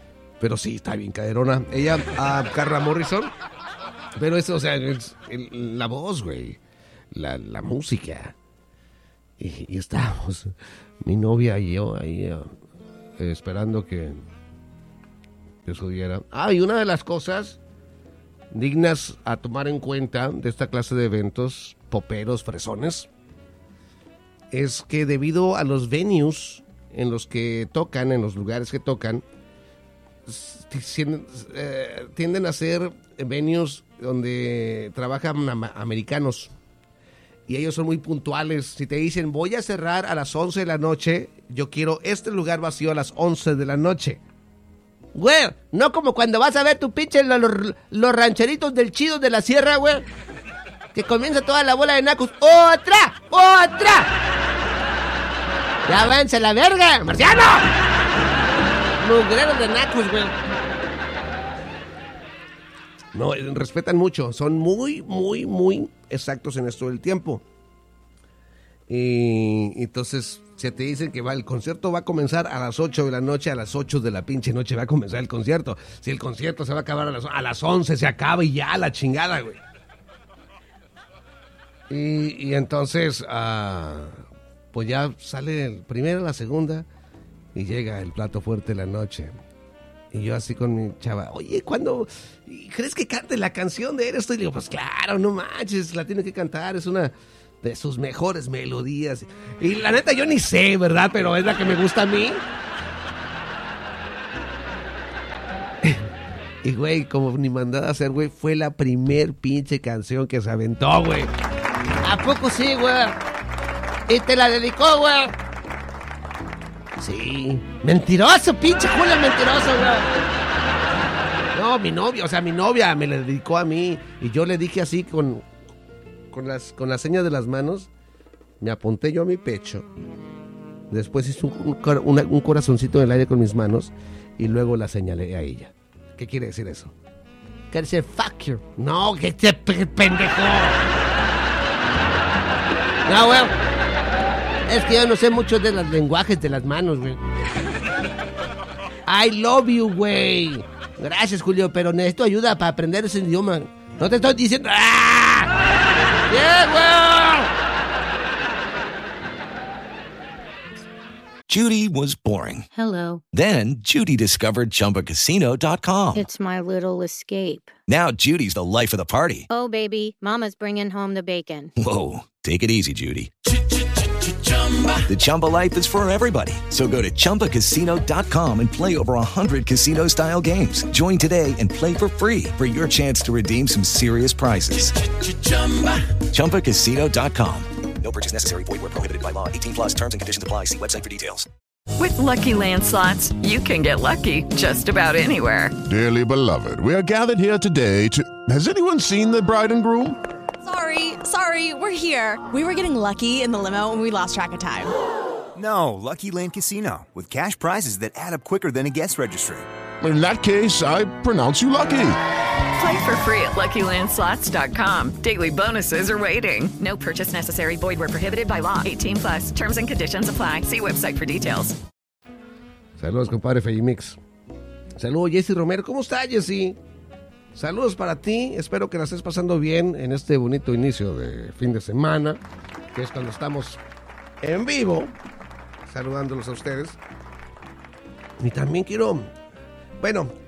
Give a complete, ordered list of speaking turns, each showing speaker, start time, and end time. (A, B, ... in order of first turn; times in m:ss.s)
0:00.4-0:03.3 A
0:04.2-0:06.6 A
0:07.1-0:08.4 A
0:09.4-0:12.5 A
0:13.2-0:14.2 A
0:15.6-0:17.6 A
0:18.5-0:23.1 A
0:24.5-0:29.2 A
0:30.3-0:36.5 A
0:37.5-0:44.2 A
0:45.2-0:50.0 A
0:51.0-0:54.1 A
0:55.9-0:57.7 A
0:59.0-1:00.3 A
1:03.1-1:07.4 A
1:08.9-1:19.6 A
1:21.9-1:26.9 A
1:27.6-1:29.3 A
1:30.1-1:42.4 A
1:46.6-1:51.3 A
1:52.0-1:53.2 A
1:54.1-1:55.3 A
1:57.0-2:00.1 A
2:01.6-2:05.4 A
2:06.3-2:07.9 A
2:08.6-2:09.9 A
2:10.9-2:16.9 A
2:17.7-2:20.8 A
2:23.1-2:23.5 A
2:24.7-2:27.2 A
2:29.1-2:35.5 A
2:36.3-2:37.5 A
2:41.5-2:42.7 B
2:42.7-2:43.2 C
2:43.3-2:46.3 B
2:46.2-2:47.7 C
2:47.9-2:49.5 B
2:49.5-2:51.7 C
2:51.8-2:53.3 B
2:55.0-3:05.0 B
3:06.3-3:07.7 B
3:08.0-3:11.5 D
3:12.0-3:15.8 E
3:15.8-3:20.2 F
3:20.6-3:24.9 G
3:25.6-3:29.7 H
3:30.0-3:32.2 F
3:32.8-3:41.8 E
3:43.0-3:44.2 A
3:45.0-3:46.8 A
3:47.5-3:52.4 A
3:52.9-3:53.8 A
3:54.4-3:55.1 A
3:55.9-3:57.0 A
3:58.4-3:59.3 A
4:00.0-4:00.3 A